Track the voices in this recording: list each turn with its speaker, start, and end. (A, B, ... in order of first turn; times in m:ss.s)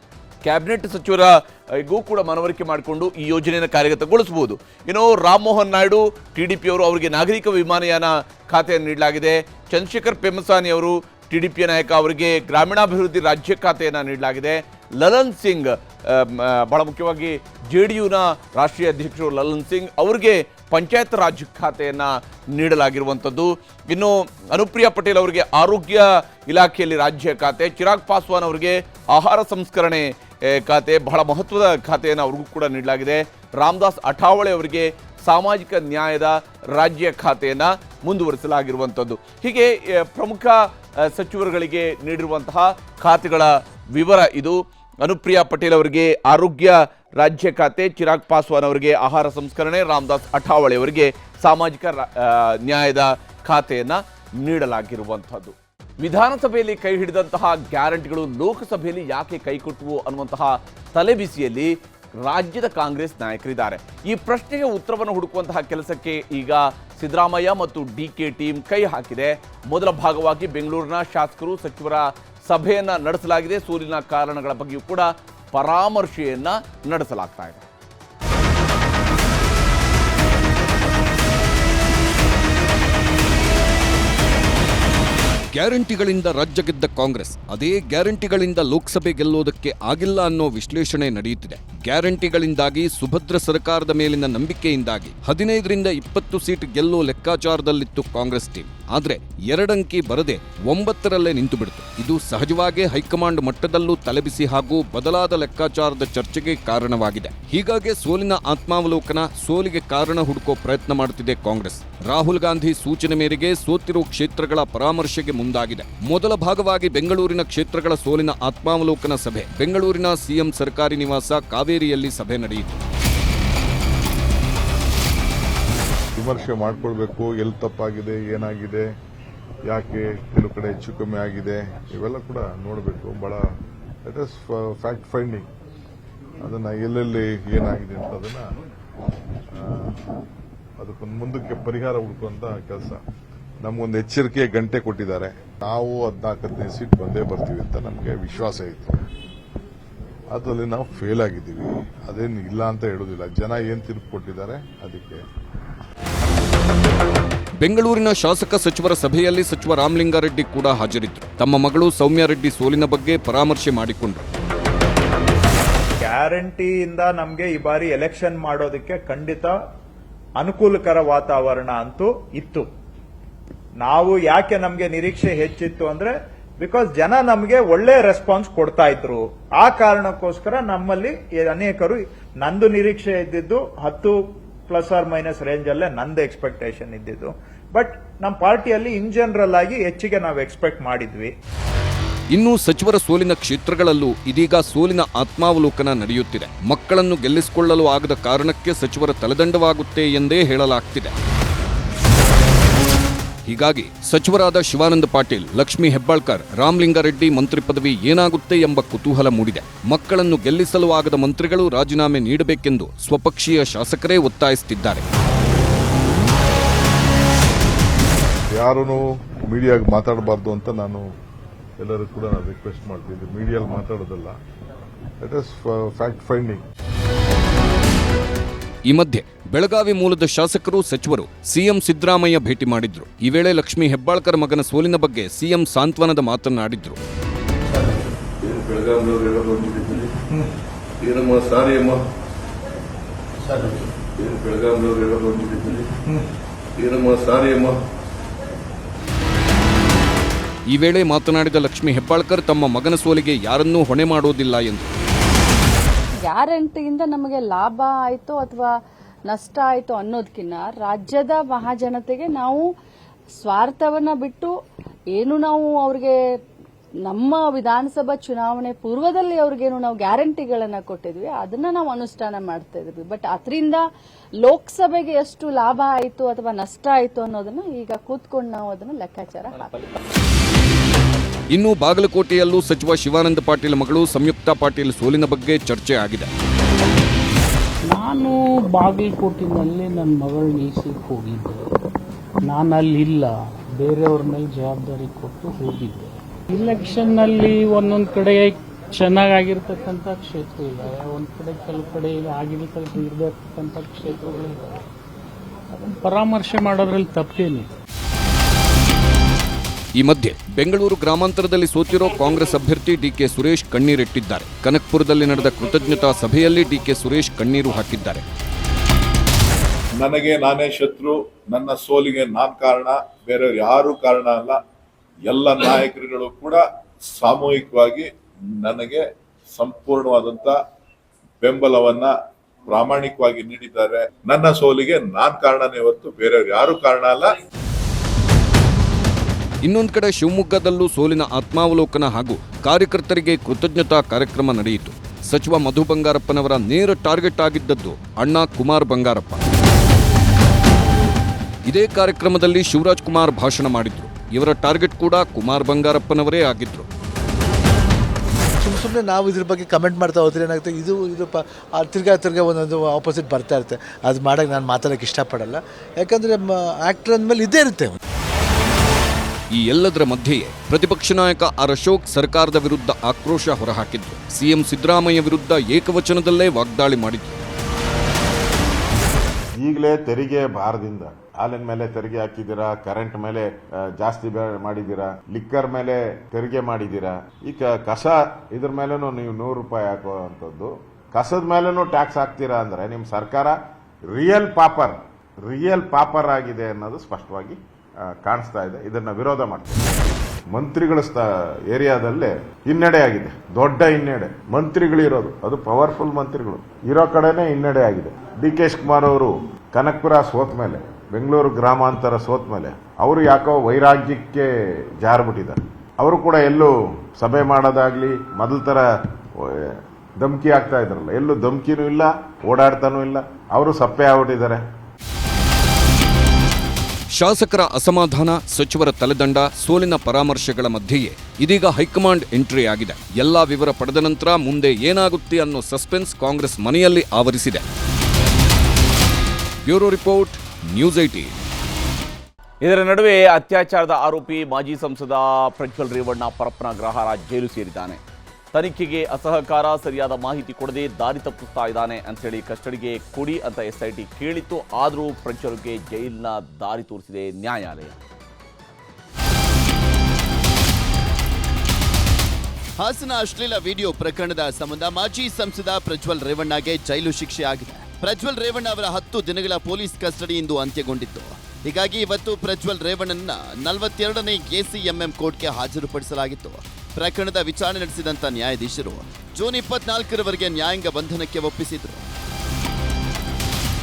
0:00.4-1:17.6 A
1:25.5-2:02.8 B
2:06.2-2:08.9 C
2:09.7-2:13.4 C
2:14.0-2:15.5 C
2:16.4-2:18.6 C
2:19.5-2:20.0 C
2:20.8-2:23.0 C
2:23.6-2:29.0 C
2:30.3-2:35.2 C
2:37.6-2:44.2 B
2:46.0-2:49.6 D
2:50.4-2:52.7 D
2:53.8-3:11.3 D
3:12.3-3:21.1 B
3:23.5-3:35.0 B
3:38.5-3:41.1 C
3:41.8-3:44.4 C
3:45.2-3:46.6 C
3:48.9-3:57.0 B
3:58.4-4:00.1 E
4:01.0-4:02.0 E
4:04.2-4:05.8 E
4:06.8-4:07.8 E
4:10.7-4:14.9 B
4:16.3-4:18.7 F
4:19.3-4:22.6 F
4:23.4-4:24.5 F
4:25.1-4:26.2 F
4:27.0-4:33.8 F
4:34.4-4:39.8 F
4:41.5-4:46.3 B
4:47.9-4:51.7 G
4:52.5-5:04.8 G
5:05.7-5:07.7 G
5:10.0-5:18.2 B
5:20.0-5:24.6 E
5:25.3-5:26.6 E
5:27.2-5:28.1 E
5:28.6-5:29.0 E
5:29.6-5:30.6 E
5:31.4-5:32.1 E
5:32.7-5:37.3 E
5:39.6-5:49.4 B
5:51.7-5:56.9 B
5:58.6-6:08.0 H
6:09.5-6:17.4 B
6:19.6-7:04.6 I
7:07.2-7:17.6 B
7:19.6-7:21.4 B
7:22.6-7:28.0 A
7:28.5-7:38.0 A
7:42.8-8:02.1 J